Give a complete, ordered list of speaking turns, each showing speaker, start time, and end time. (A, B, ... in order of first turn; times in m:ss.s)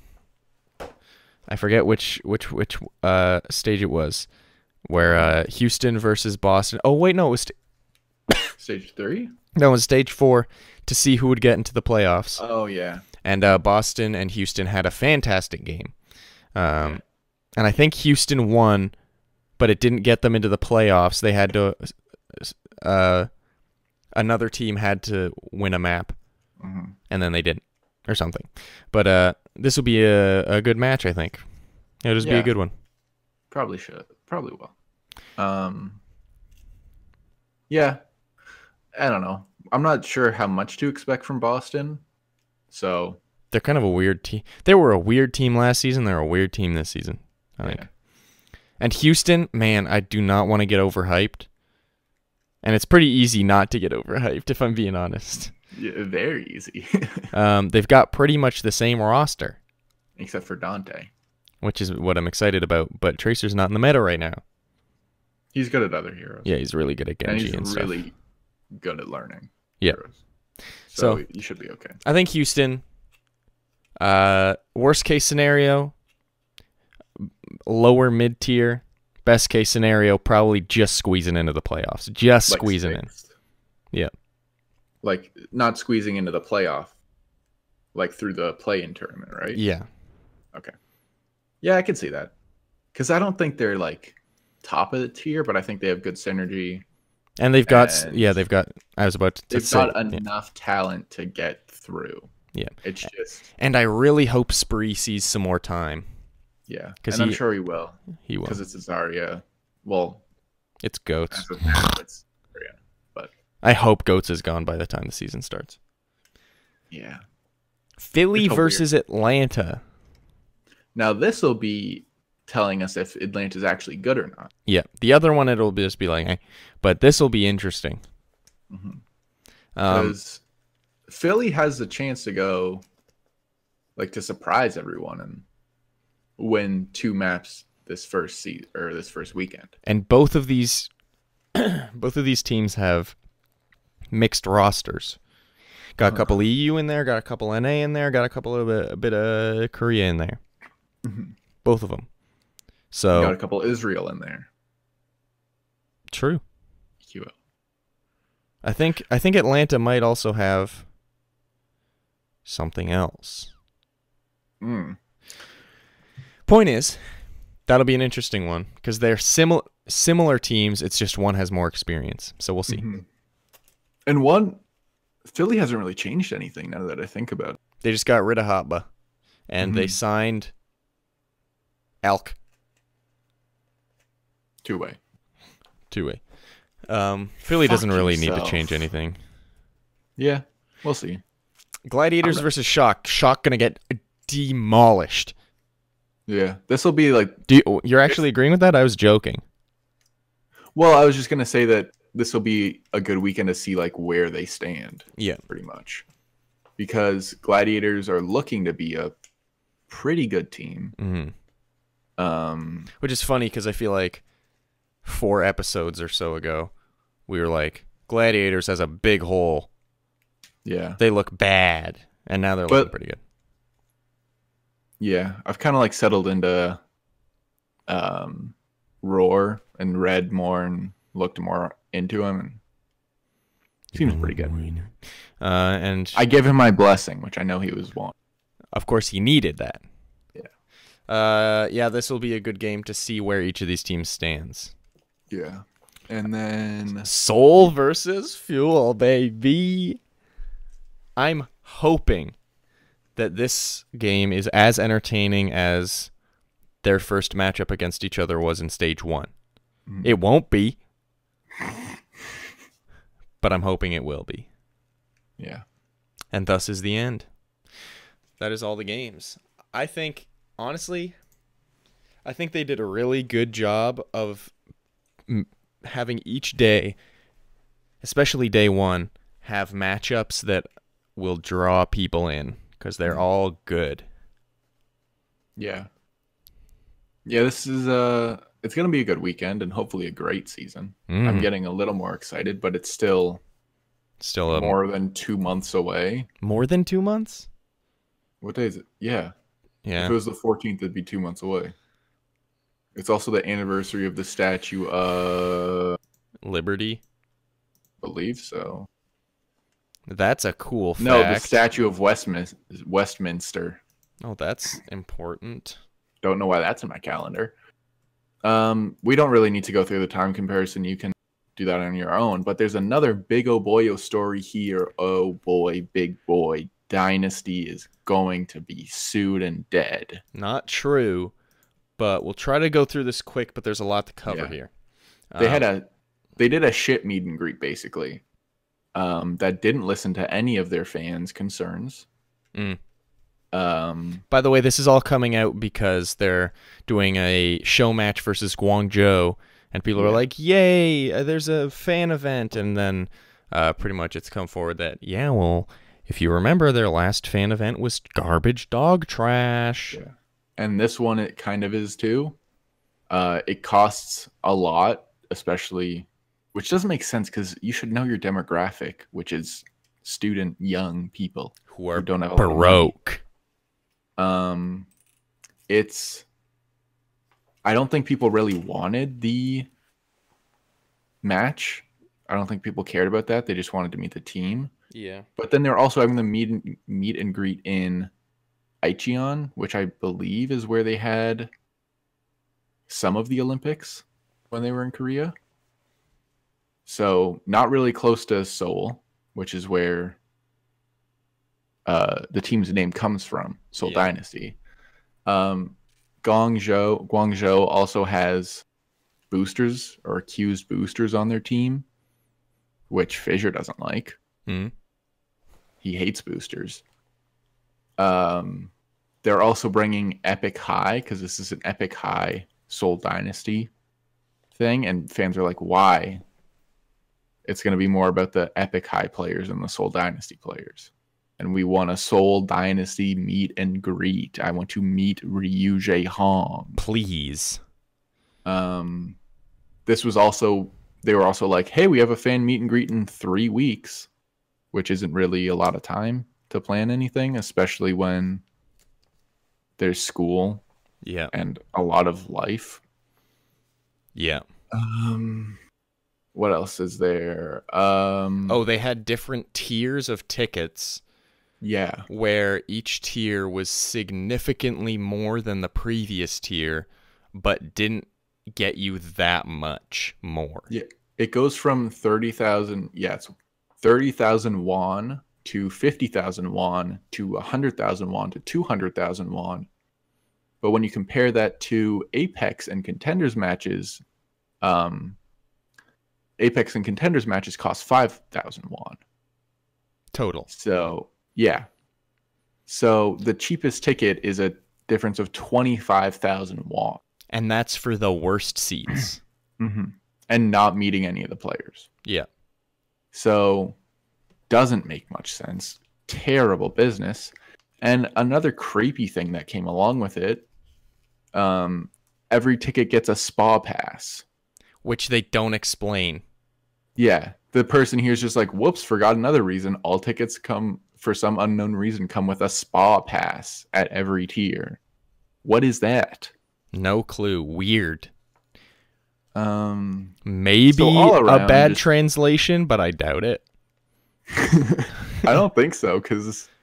0:01.5-0:04.3 A
0:04.9-0:07.5 A
0:05.0-0:05.4 B
0:08.6-0:09.3 B
0:09.6-0:12.4 A
0:12.4-0:13.1 B
0:13.2-0:15.9 A
0:16.6-0:17.0 A
0:17.6-0:18.9 A
0:19.6-0:23.3 A
0:24.2-0:26.2 A
0:26.6-0:27.0 B
0:27.1-0:31.4 A
0:32.0-0:32.7 A
0:32.2-0:32.5 B
0:33.5-0:34.7 B
0:35.4-0:36.0 B
0:37.7-0:38.0 B
0:39.0-0:42.0 B
0:42.7-0:43.2 B
0:43.5-0:47.8 A
0:47.6-0:47.9 B
0:48.8-0:51.5 A
0:52.6-0:55.5 A
0:55.5-0:57.3 B
0:57.3-0:59.6 A
1:00.2-1:01.1 B
1:01.6-1:04.4 A
1:05.5-1:06.5 B
1:06.4-1:08.0 A
1:07.2-1:08.1 B
1:08.8-1:10.2 B
1:10.9-1:12.0 B
1:11.0-1:11.2 A
1:12.0-1:12.8 A
1:14.0-1:15.9 A
1:17.2-1:23.1 A
1:22.5-1:23.3 B
1:25.0-1:27.0 B
1:28.0-1:29.6 B
1:29.5-1:29.9 A
1:31.6-1:32.3 B
1:32.9-1:36.8 B
1:37.4-1:40.2 A
1:37.7-1:38.4 B
1:39.5-1:42.3 B
1:42.8-1:43.5 B
1:43.6-1:46.1 A
1:46.7-1:50.2 B
1:47.0-1:47.4 A
1:48.2-1:48.6 A
1:50.8-1:52.0 A
1:51.3-1:53.3 B
1:53.6-1:55.8 A
1:56.9-1:57.2 B
1:58.0-1:59.8 A
1:58.4-1:58.8 B
2:01.0-2:04.5 B
2:04.7-2:08.0 A
2:08.7-2:09.0 B
2:09.8-2:10.2 A
2:09.9-2:10.4 B
2:11.1-2:12.8 B
2:14.0-2:15.4 B
2:16.4-2:19.7 B
2:19.8-2:20.9 A
2:21.5-2:23.2 A
2:24.1-2:25.2 A
2:26.0-2:30.4 A
2:26.1-2:26.3 B
2:31.0-2:31.3 B
2:31.6-2:32.1 A
2:32.9-2:33.4 A
2:33.1-2:34.5 B
2:36.1-2:36.4 A
2:37.0-2:37.3 B
2:38.6-2:40.9 A
2:42.4-2:43.5 A
2:44.6-2:45.0 B
2:46.5-2:47.0 A
2:47.7-2:52.9 A
2:52.7-2:53.0 B
2:54.1-2:54.6 B
2:55.2-2:57.6 B
2:57.8-2:58.9 A
2:59.5-3:00.5 A
2:59.6-3:00.0 B
3:02.0-3:02.4 A
3:04.6-3:05.0 B
3:05.9-3:06.2 A
3:06.9-3:09.2 A
3:07.5-3:08.9 B
3:10.2-3:11.2 B
3:11.9-3:15.3 A
3:16.3-3:17.4 B
3:17.5-3:19.4 A
3:20.8-3:26.0 B
3:25.2-3:25.4 A
3:26.8-3:29.1 B
3:29.9-3:31.0 B
3:31.0-3:31.3 A
3:32.2-3:32.9 B
3:33.0-3:34.2 A
3:35.0-3:36.7 A
3:37.3-3:39.7 A
3:40.6-3:41.0 B
3:41.0-3:43.2 A
3:45.0-3:46.8 B
3:47.9-3:52.6 B
3:53.9-3:56.2 A
3:53.9-3:54.7 B
3:56.1-3:58.1 B
3:58.7-3:59.8 A
4:01.1-4:04.7 A
4:05.3-4:07.1 B
4:07.0-4:10.0 A
4:11.2-4:12.4 A
4:13.2-4:16.1 A
4:16.8-4:19.3 A
4:19.9-4:20.1 B
4:20.0-4:20.8 A
4:23.4-4:24.5 A
4:26.3-4:27.3 A
4:28.4-4:31.2 A
4:32.2-4:34.5 A
4:35.3-4:37.0 A
4:38.0-4:44.0 A
4:45.6-4:45.9 B
4:47.3-4:53.4 B
4:51.1-4:51.5 A
4:54.2-4:54.8 A
4:54.5-4:56.3 B
4:56.4-4:57.5 A
4:58.4-4:59.3 B
4:59.8-5:00.2 A
5:00.0-5:01.7 B
5:03.0-5:06.0 B
5:06.4-5:07.0 A
5:08.0-5:08.9 B
5:10.1-5:11.6 A
5:11.0-5:13.8 B
5:14.2-5:15.8 A
5:16.2-5:17.5 B
5:18.4-5:30.2 B
5:30.4-5:31.3 A
5:32.0-5:34.7 A
5:34.3-5:34.6 B
5:35.3-5:35.6 A
5:35.4-5:38.2 B
5:39.0-5:42.1 B
5:43.5-5:44.2 B
5:44.3-6:00.0 A
5:50.0-5:50.2 B
5:59.9-6:02.4 B
6:03.1-6:12.9 B
6:11.7-6:13.2 A
6:14.2-6:14.9 B
6:15.7-6:16.3 B
6:17.6-6:19.7 B
6:21.2-6:24.7 B
6:24.9-6:25.3 A
6:25.4-6:28.1 B
6:28.8-6:31.5 B
6:32.9-6:35.3 B
6:36.9-6:40.2 B
6:41.9-6:44.6 B
6:43.8-6:44.1 A
6:45.3-6:48.6 B
6:49.3-6:51.9 B
6:52.9-6:54.2 B
6:54.5-6:54.7 A
6:55.8-6:56.8 B
6:58.0-6:58.7 B
6:59.2-7:03.7 B
7:04.6-7:06.2 B
7:07.5-7:16.8 B
7:16.8-7:17.6 A
7:18.5-7:19.2 B
7:19.9-7:24.1 B
7:24.7-7:28.4 B
7:29.8-7:30.6 B
7:31.0-7:31.3 A
7:31.3-7:32.8 B
7:34.2-7:34.4 A
7:34.7-7:35.6 B
7:36.4-7:38.6 B
7:38.5-7:41.0 A
7:41.6-7:42.1 B
7:42.1-7:50.7 A
7:50.7-7:59.7 B
8:00.6-8:04.0 B
8:04.6-8:05.2 B
8:06.4-8:09.0 B
8:10.1-8:10.5 A
8:10.5-8:11.7 B
8:12.7-8:17.0 B
8:17.3-8:19.2 A
8:19.6-8:21.9 B
8:23.1-8:23.8 B
8:24.5-8:30.4 B
8:31.3-8:34.2 B
8:34.8-8:36.2 A
8:37.0-8:44.8 B
8:45.4-8:46.3 B
8:46.7-8:48.1 A
8:49.4-8:50.2 B
8:50.2-8:53.4 A
8:50.7-8:51.8 B
8:54.3-8:56.5 B